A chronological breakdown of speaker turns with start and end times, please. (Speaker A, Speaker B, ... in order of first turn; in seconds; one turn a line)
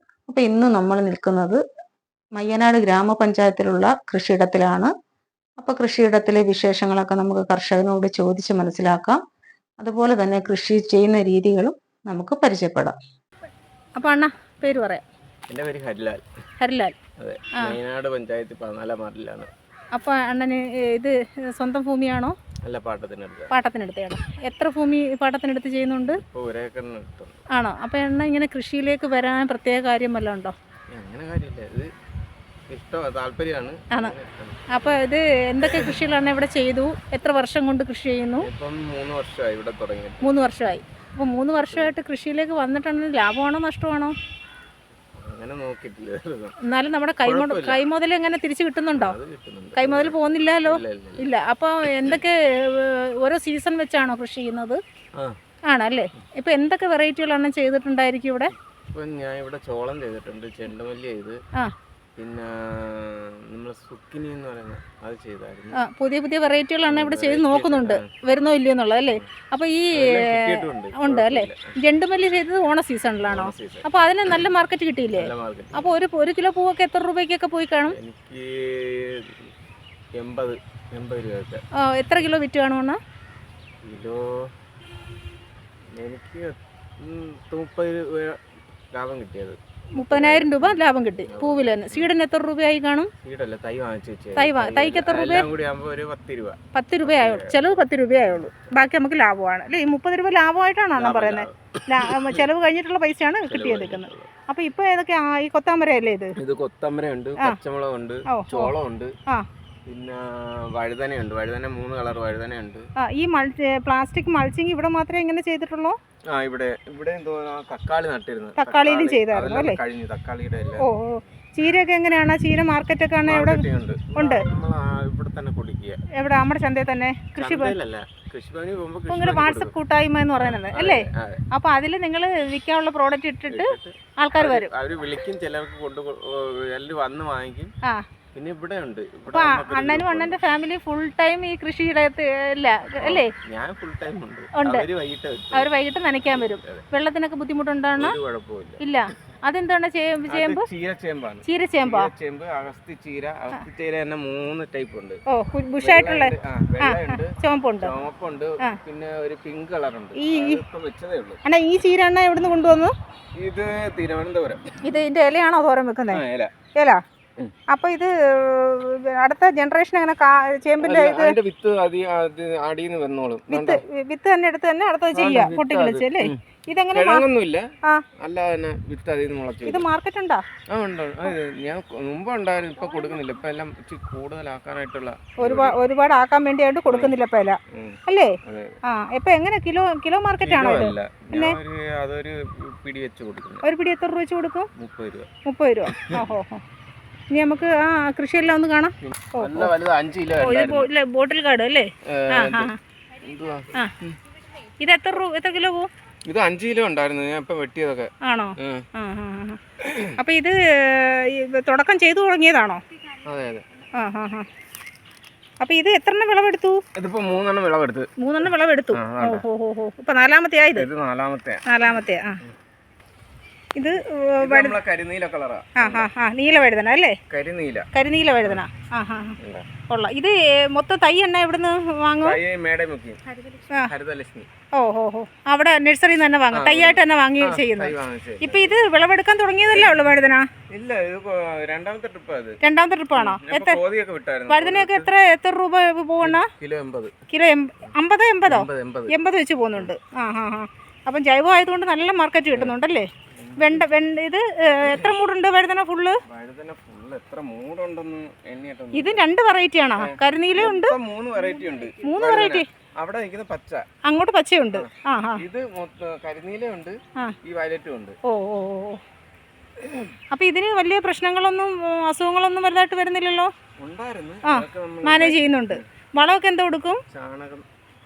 Speaker A: 0.3-1.6
Speaker A: 2.3-4.9
Speaker A: 5.6-9.2
Speaker A: 9.8-12.9
Speaker B: 14.0-15.0
Speaker C: 15.5-16.2
Speaker B: 16.6-17.0
Speaker C: 17.2-19.5
Speaker B: 19.9-22.3
Speaker C: 22.6-23.5
Speaker B: 23.5-26.2
Speaker C: 26.1-27.4
Speaker B: 27.5-30.5
Speaker C: 30.9-31.9
Speaker C: 32.7-35.0
Speaker B: 34.7-38.5
Speaker C: 35.6-36.0
Speaker C: 38.4-40.4
Speaker B: 40.2-44.1
Speaker C: 41.5-41.9
Speaker C: 45.2-46.5
Speaker B: 46.6-49.2
Speaker C: 47.2-47.8
Speaker C: 48.9-51.3
Speaker B: 49.8-54.8
Speaker B: 55.7-58.5
Speaker C: 58.9-61.4
Speaker C: 62.2-65.8
Speaker B: 65.8-78.0
Speaker C: 66.9-68.1
Speaker C: 69.9-71.6
Speaker C: 73.2-73.9
Speaker C: 75.1-76.0
Speaker C: 77.9-79.4
Speaker C: 80.2-82.3
Speaker B: 81.8-83.0
Speaker C: 83.8-84.5
Speaker C: 85.9-88.4
Speaker C: 88.9-92.1
Speaker B: 90.0-93.1
Speaker C: 93.2-98.5
Speaker B: 94.4-95.5
Speaker B: 96.7-106.4
Speaker C: 101.0-102.5
Speaker C: 103.5-104.3
Speaker C: 106.4-109.1
Speaker B: 108.3-108.7
Speaker C: 109.9-112.9
Speaker B: 113.0-116.0
Speaker C: 116.3-120.9
Speaker B: 118.6-119.8
Speaker B: 120.8-124.5
Speaker C: 123.2-126.0
Speaker B: 126.2-127.8
Speaker C: 127.4-129.7
Speaker B: 129.1-134.7
Speaker C: 130.4-131.4
Speaker C: 133.5-137.7
Speaker C: 138.3-140.4
Speaker B: 139.3-143.3
Speaker C: 143.0-145.7
Speaker B: 144.6-144.8
Speaker B: 145.5-148.2
Speaker C: 146.3-146.8
Speaker C: 148.0-148.8
Speaker B: 148.8-150.7
Speaker C: 150.3-155.2
Speaker B: 151.5-152.1
Speaker B: 155.3-157.9
Speaker C: 155.8-161.4
Speaker B: 160.2-160.6
Speaker B: 161.4-162.9
Speaker C: 163.4-164.6
Speaker B: 164.8-166.2
Speaker C: 166.1-166.5
Speaker B: 167.7-171.4
Speaker C: 170.8-173.8
Speaker B: 173.5-177.2
Speaker C: 175.1-176.4
Speaker C: 176.9-179.8
Speaker B: 179.7-180.4
Speaker C: 180.7-185.8
Speaker B: 185.4-191.6
Speaker C: 186.9-187.1
Speaker C: 187.7-188.8
Speaker C: 190.4-193.7
Speaker B: 193.6-194.7
Speaker C: 194.8-195.3
Speaker B: 195.4-196.6
Speaker C: 195.8-196.3
Speaker B: 197.3-199.7
Speaker C: 199.0-200.9
Speaker B: 200.3-202.8
Speaker C: 202.1-204.2
Speaker B: 204.8-205.9
Speaker C: 206.2-208.8
Speaker B: 208.2-209.6
Speaker C: 209.8-210.2
Speaker B: 210.2-212.8
Speaker C: 213.2-213.6
Speaker B: 214.0-214.5
Speaker B: 215.6-216.8
Speaker C: 216.9-218.1
Speaker B: 218.2-220.9
Speaker C: 218.9-219.4
Speaker C: 220.7-222.5
Speaker B: 221.7-222.4
Speaker B: 223.8-224.8
Speaker C: 224.4-226.1
Speaker B: 225.8-227.2
Speaker C: 227.3-227.9
Speaker B: 227.9-229.4
Speaker C: 229.4-229.7
Speaker B: 229.9-232.4
Speaker C: 232.2-234.5
Speaker B: 233.6-233.9
Speaker B: 234.7-240.4
Speaker C: 236.5-238.8
Speaker C: 239.7-240.0
Speaker C: 240.7-242.6
Speaker B: 242.6-243.8
Speaker C: 243.1-245.1
Speaker B: 244.5-246.5
Speaker C: 246.2-247.2
Speaker B: 247.3-256.2
Speaker C: 248.5-249.2
Speaker C: 253.3-253.8
Speaker C: 254.8-255.1
Speaker C: 256.2-259.2
Speaker B: 258.9-261.0
Speaker C: 259.9-263.9
Speaker B: 261.9-262.7
Speaker B: 264.0-265.4
Speaker C: 264.7-268.2
Speaker B: 268.2-269.0
Speaker C: 269.8-270.1
Speaker B: 270.3-273.5
Speaker C: 273.8-275.8
Speaker B: 274.5-277.0
Speaker C: 277.1-277.6